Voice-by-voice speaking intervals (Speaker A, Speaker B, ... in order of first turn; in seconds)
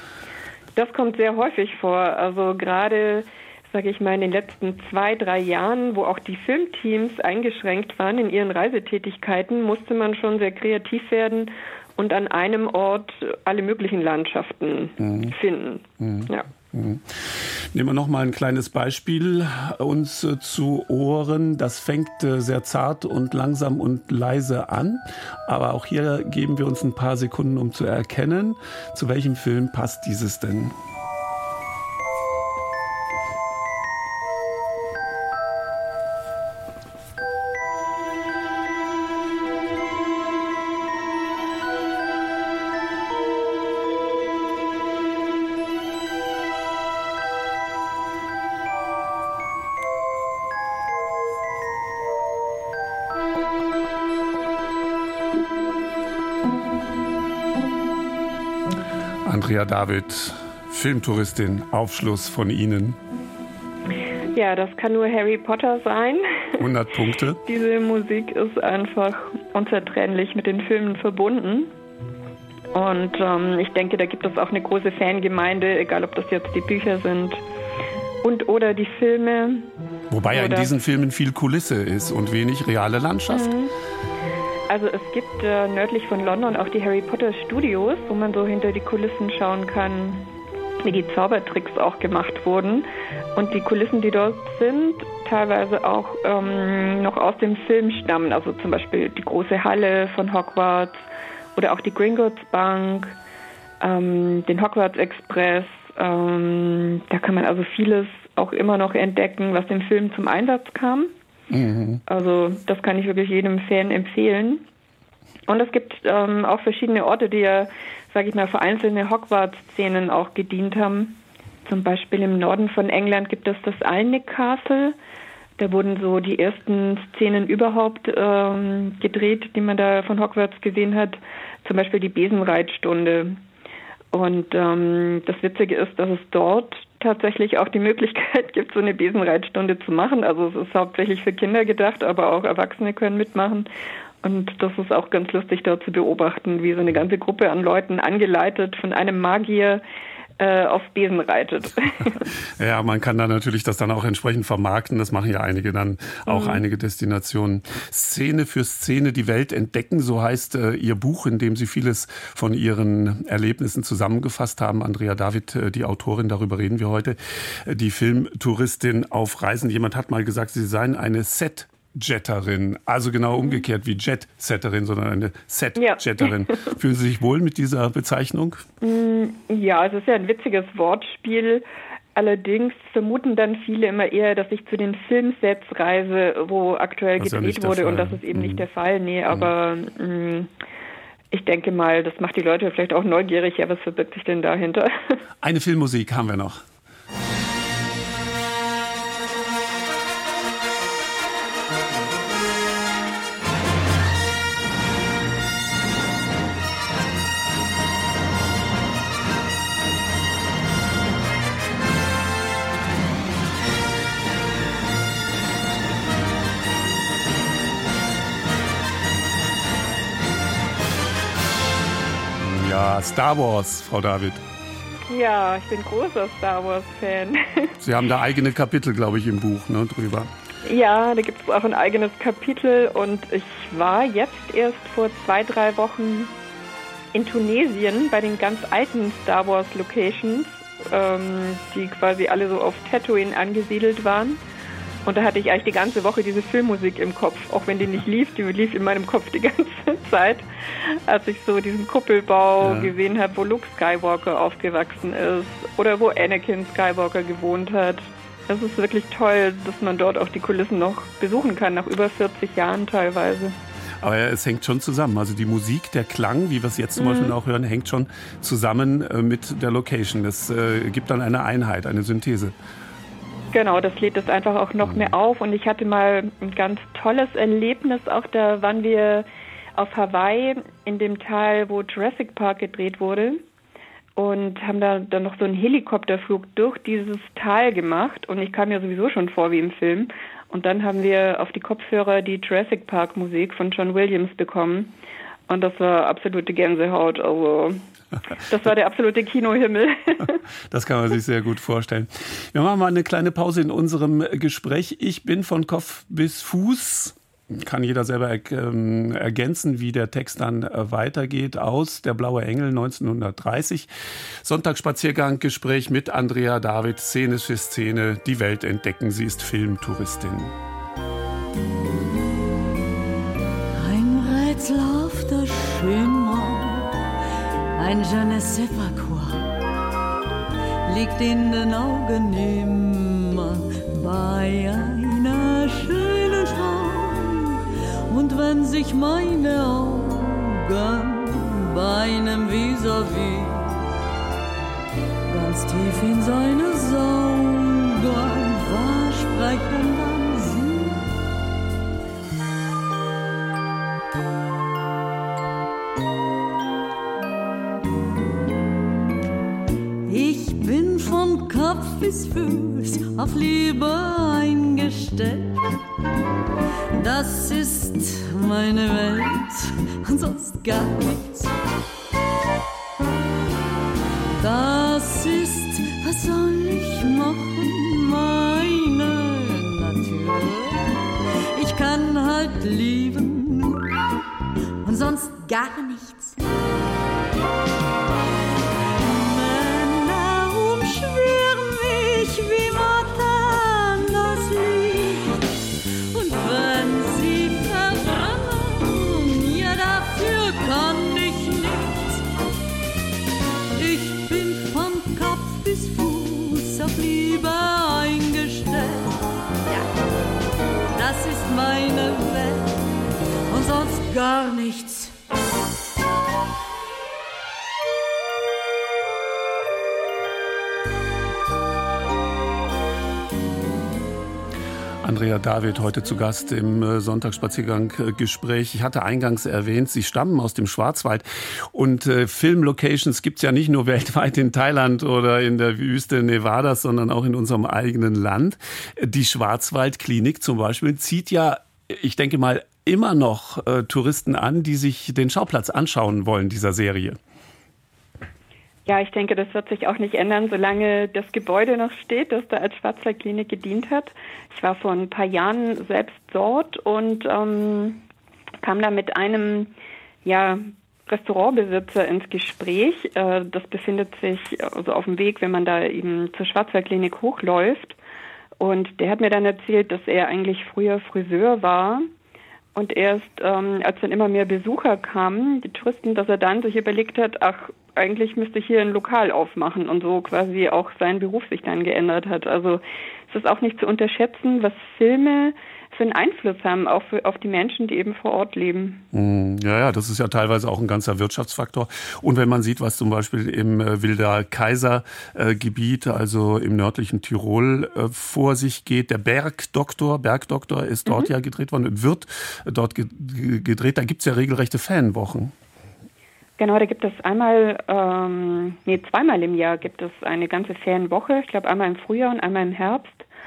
Speaker A: 0.8-16.5, 64.3-66.6, 67.5-71.7, 72.7-77.4, 78.2-79.7, 80.3-80.7, 83.3-83.7, 84.7-90.2, 90.8-101.0, 101.6-103.2, 103.8-111.1, 112.1-114.6, 115.5-125.0, 125.6-133.4, 134.1-143.7, 144.2-149.8, 150.4-152.2, 156.3-156.6, 173.3-173.7, 175.8-176.4, 178.8-181.6, 182.2-190.5, 191.3-195.1, 225.1-227.7, 230.6-236.3, 237.1-244.4, 245.1-250.4, 251.1-263.6, 267.0-267.4, 273.5-283.4, 284.2-294.9, 295.5-297.8, 298.5-300.4, 448.9-458.0, 458.6-459.7, 460.2-468.0, 468.6-472.1, 472.8-489.0, 501.1-501.3, 506.6-513.3
Speaker B: 15.0-15.4, 16.0-30.8, 59.2-63.0, 66.6-67.4, 80.1-83.5, 111.5-112.0, 152.6-178.6, 187.2-188.7, 195.4-196.6, 222.4-224.4, 227.8-230.3, 252.6-252.9, 264.0-272.5, 274.8-275.1, 300.7-320.5, 425.0-447.2, 489.1-505.5
Speaker C: 323.8-327.0, 327.8-329.4, 330.9-343.8, 345.3-351.1, 360.1-365.6, 366.9-371.6, 374.4-380.9, 381.5-383.9, 384.8-386.4, 389.0-395.4, 396.1-402.2, 403.8-409.9, 410.9-412.8, 413.5-415.1